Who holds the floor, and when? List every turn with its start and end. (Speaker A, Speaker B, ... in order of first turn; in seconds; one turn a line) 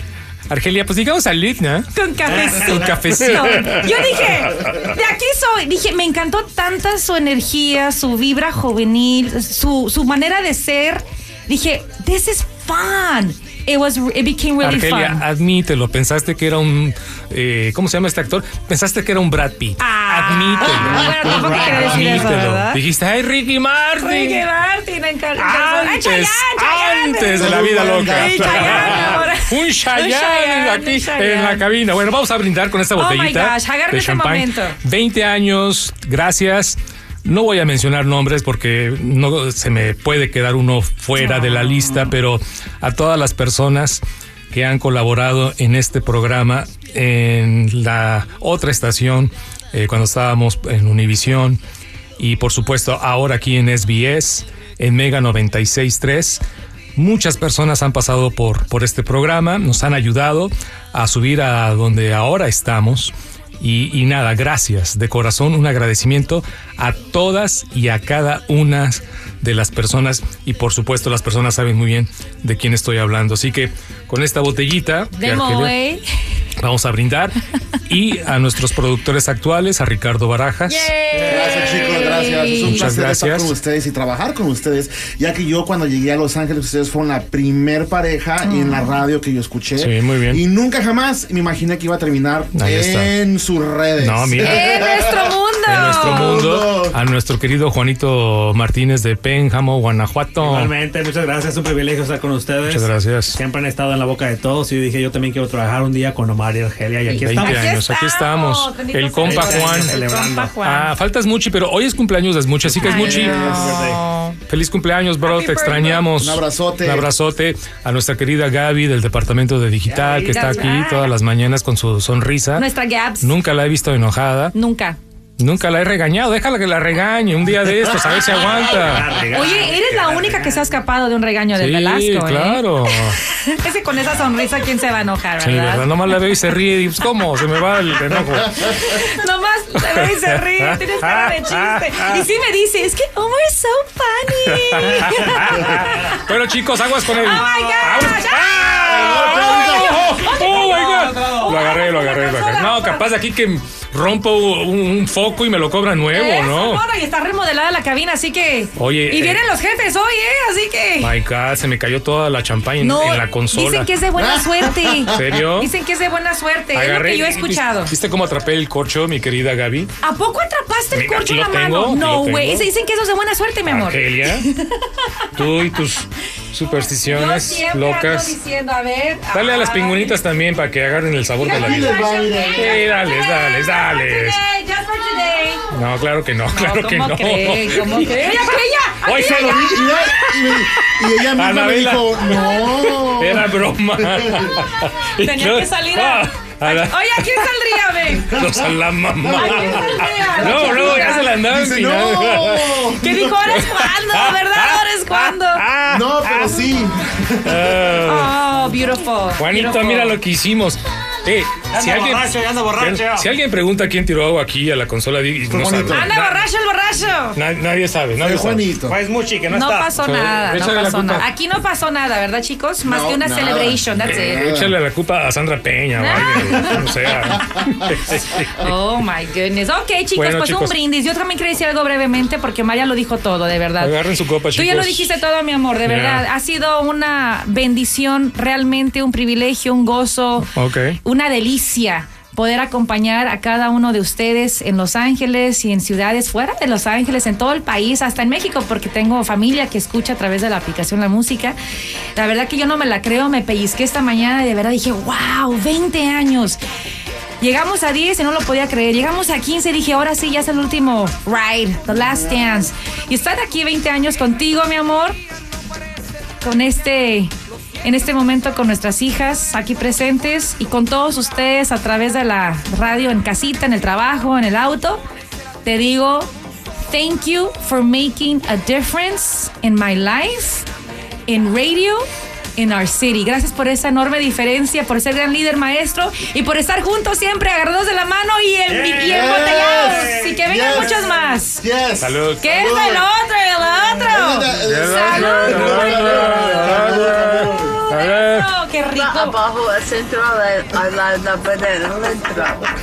Speaker A: 0.5-3.9
Speaker B: 1.9-15.2
Speaker A: 14.6-24.4
Speaker B: 19.8-22.8
Speaker B: 24.0-31.6
Speaker A: 25.4-51.6
Speaker C: 27.4-29.2
Speaker B: 32.9-34.8
Speaker B: 41.1-42.1
Speaker A: 52.2-56.4
Speaker A: 57.0-75.7
Speaker B: 75.2-76.0
Speaker A: 76.6-80.9
Speaker B: 80.7-82.9
Speaker C: 81.2-97.0
Speaker A: 82.6-83.5
Speaker B: 88.4-89.0
Speaker A: 89.8-90.4
Speaker A: 92.5-93.2
Speaker A: 94.0-94.7
Speaker B: 94.4-96.4
Speaker A: 95.7-100.7
Speaker D: 100.4-107.7
Speaker A: 102.6-103.4
Speaker A: 107.1-110.0
Speaker B: 107.1-111.0
Speaker D: 109.2-110.5
Speaker A: 110.6-113.9
Speaker B: 112.8-114.4
Speaker C: 113.0-113.8
Speaker D: 113.6-114.0
Speaker A: 114.5-122.7
Speaker B: 115.2-116.1
Speaker C: 116.2-117.1
Speaker B: 120.0-121.1
Speaker B: 122.5-123.3
Speaker A: 123.2-124.5
Speaker B: 124.5-125.0
Speaker A: 125.4-129.2
Speaker D: 127.8-130.6
Speaker B: 129.3-136.0
Speaker A: 131.5-133.2
Speaker A: 135.4-139.0
Speaker B: 138.6-146.2
Speaker A: 139.9-142.3
Speaker A: 144.5-156.8
Speaker B: 147.1-153.0
Speaker C: 149.0-149.7
Speaker B: 156.1-161.1
Speaker A: 158.8-159.4
Speaker A: 161.0-163.9
Speaker B: 162.8-167.9
Speaker C: 164.2-165.3
Speaker A: 165.1-165.7
Speaker A: 166.7-169.9
Speaker B: 170.0-175.1
Speaker A: 170.9-172.7
Speaker A: 173.7-174.4
Speaker A: 175.3-178.4
Speaker B: 177.1-180.2
Speaker A: 179.3-181.9
Speaker B: 181.4-185.7
Speaker C: 181.5-182.7
Speaker A: 182.5-184.4
Speaker A: 185.7-190.6
Speaker B: 186.5-189.9
Speaker C: 189.2-194.5
Speaker A: 191.2-197.5
Speaker B: 195.2-198.5
Speaker A: 198.2-204.8
Speaker B: 199.3-201.3
Speaker C: 199.4-199.8
Speaker C: 200.4-203.4
Speaker B: 203.0-205.7
Speaker D: 205.6-206.6
Speaker C: 205.9-207.7
Speaker A: 207.4-208.3
Speaker B: 208.0-210.2
Speaker A: 209.4-216.2
Speaker D: 211.7-213.3
Speaker C: 215.6-216.1
Speaker B: 215.9-217.4
Speaker A: 217.3-218.7
Speaker C: 218.2-219.0
Speaker D: 218.9-219.9
Speaker B: 219.5-224.5
Speaker A: 220.0-221.2
Speaker C: 222.8-224.8
Speaker A: 224.0-228.7
Speaker B: 225.9-226.9
Speaker B: 228.6-240.5
Speaker A: 230.1-230.7
Speaker A: 233.8-235.1
Speaker A: 235.8-236.2
Speaker A: 240.5-241.0
Speaker B: 241.0-251.6
Speaker B: 252.1-256.6
Speaker B: 257.4-265.2
Speaker B: 266.4-267.3
Speaker B: 267.8-275.0
Speaker B: 275.6-276.3
Speaker B: 276.9-280.7
Speaker B: 281.3-282.0
Speaker B: 282.6-291.6
Speaker D: 288.7-289.1
Speaker C: 289.1-293.1
Speaker A: 292.0-292.5
Speaker B: 292.4-296.7
Speaker C: 294.0-297.7
Speaker A: 294.6-298.5
Speaker B: 297.5-299.4
Speaker E: 298.9-302.7